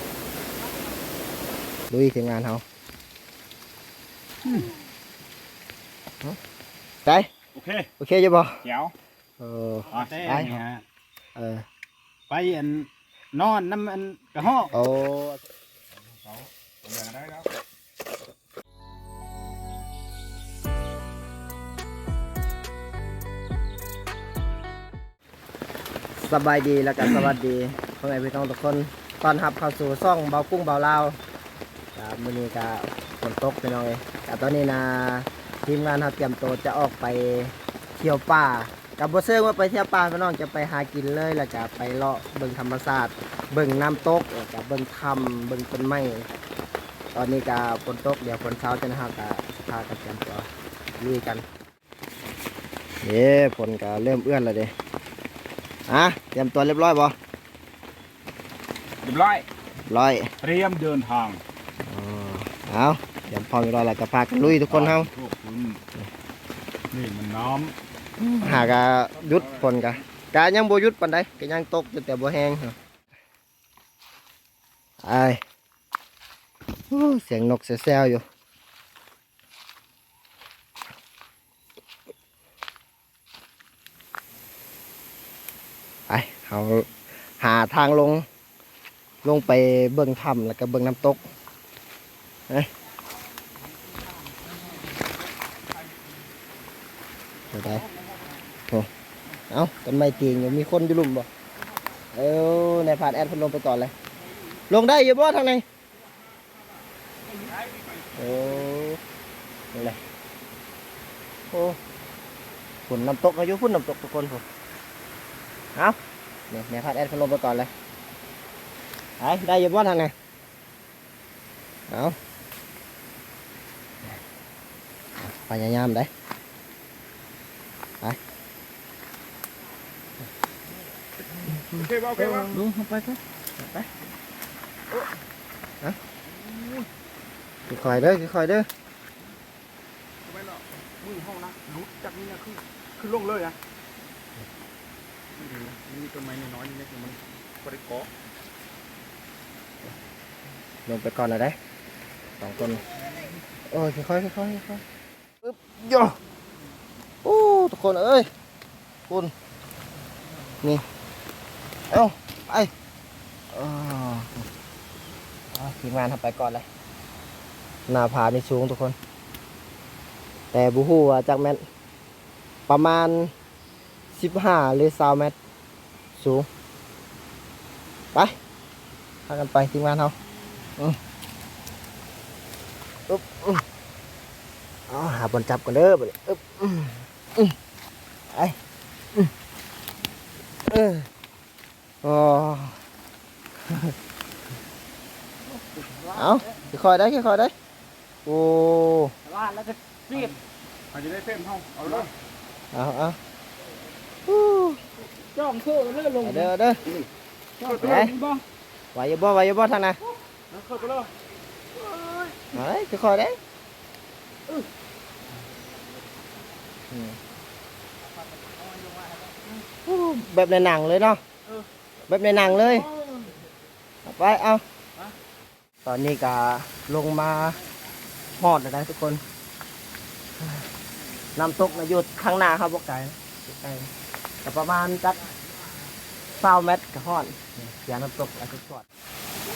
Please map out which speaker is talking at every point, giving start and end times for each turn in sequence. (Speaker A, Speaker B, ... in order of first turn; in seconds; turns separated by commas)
Speaker A: 1.9-2.6, Speaker B: 4.4-4.7, Speaker A: 7.0-7.3, Speaker B: 7.5-7.9, Speaker A: 8.0-8.6, Speaker B: 8.6-8.9, Speaker A: 9.4-10.5, Speaker B: 9.9-10.8, Speaker A: 11.3-11.6, Speaker B: 12.3-14.8, Speaker A: 14.7-15.4, Speaker B: 15.9-17.5, Speaker A: 26.1-31.2, Speaker A: 31.9-46.4, Speaker A: 47.1-51.4, Speaker A: 53.0-54.7, Speaker A: 55.9-57.1, Speaker B: 59.0-59.5, Speaker A: 59.9-60.3, Speaker B: 60.4-61.4, Speaker A: 61.8-65.1, Speaker B: 64.4-65.8, Speaker B: 66.9-67.8, Speaker A: 68.2-72.8, Speaker B: 68.4-69.8, Speaker A: 75.0-75.4, Speaker A: 76.9-78.2, Speaker A: 86.1-86.9, Speaker A: 87.4-88.2, Speaker A: 89.2-91.2, Speaker B: 93.9-96.2, Speaker B: 97.5-98.4, Speaker A: 97.5-97.8, Speaker A: 99.5-101.3, Speaker A: 102.1-103.9, Speaker A: 104.7-105.6, Speaker B: 106.0-108.7, Speaker A: 108.2-109.0, Speaker A: 109.7-110.0, Speaker A: 111.5-111.8, Speaker A: 112.9-114.4, Speaker A: 116.5-117.7, Speaker A: 119.2-120.1, Speaker A: 121.9-122.2, Speaker A: 125.2-126.1, Speaker A: 131.5-133.9, Speaker B: 131.7-132.6, Speaker B: 136.2-136.9, Speaker A: 137.7-138.7, Speaker B: 140.2-143.6, Speaker B: 145.3-148.1, Speaker A: 150.8-151.6, Speaker A: 152.4-152.8, Speaker A: 153.7-154.8, Speaker A: 155.4-156.2, Speaker A: 157.2-158.3, Speaker A: 159.1-159.3, Speaker A: 161.9-162.7, Speaker A: 163.5-164.5, Speaker A: 165.5-166.7, Speaker A: 167.9-169.0, Speaker A: 170.5-171.6, Speaker A: 172.7-173.3, Speaker A: 174.1-175.3, Speaker A: 176.2-176.5, Speaker A: 179.3-180.1, Speaker A: 183.1-183.6, Speaker A: 184.9-187.6, Speaker A: 190.7-191.1, Speaker A: 192.0-192.8, Speaker A: 193.6-193.9, Speaker C: 195.5-196.6, Speaker A: 196.1-197.5, Speaker A: 198.2-199.1, Speaker C: 199.2-200.3, Speaker B: 200.1-200.3, Speaker B: 200.9-202.1, Speaker A: 202.7-203.2, Speaker A: 204.2-204.8, Speaker C: 205.3-206.5, Speaker A: 206.2-206.8, Speaker B: 207.6-208.4, Speaker C: 207.6-208.1, Speaker A: 207.8-208.1, Speaker A: 208.9-210.0, Speaker B: 210.5-211.1, Speaker A: 212.5-213.4, Speaker A: 216.9-217.2, Speaker B: 218.1-219.5, Speaker A: 219.8-221.2, Speaker A: 222.1-222.9, Speaker B: 222.5-223.2, Speaker A: 224.0-224.6, Speaker A: 225.8-227.6, Speaker A: 228.4-229.2, Speaker A: 230.4-230.7, Speaker B: 231.3-231.8, Speaker A: 231.3-233.9, Speaker A: 234.4-235.2, Speaker A: 236.3-238.8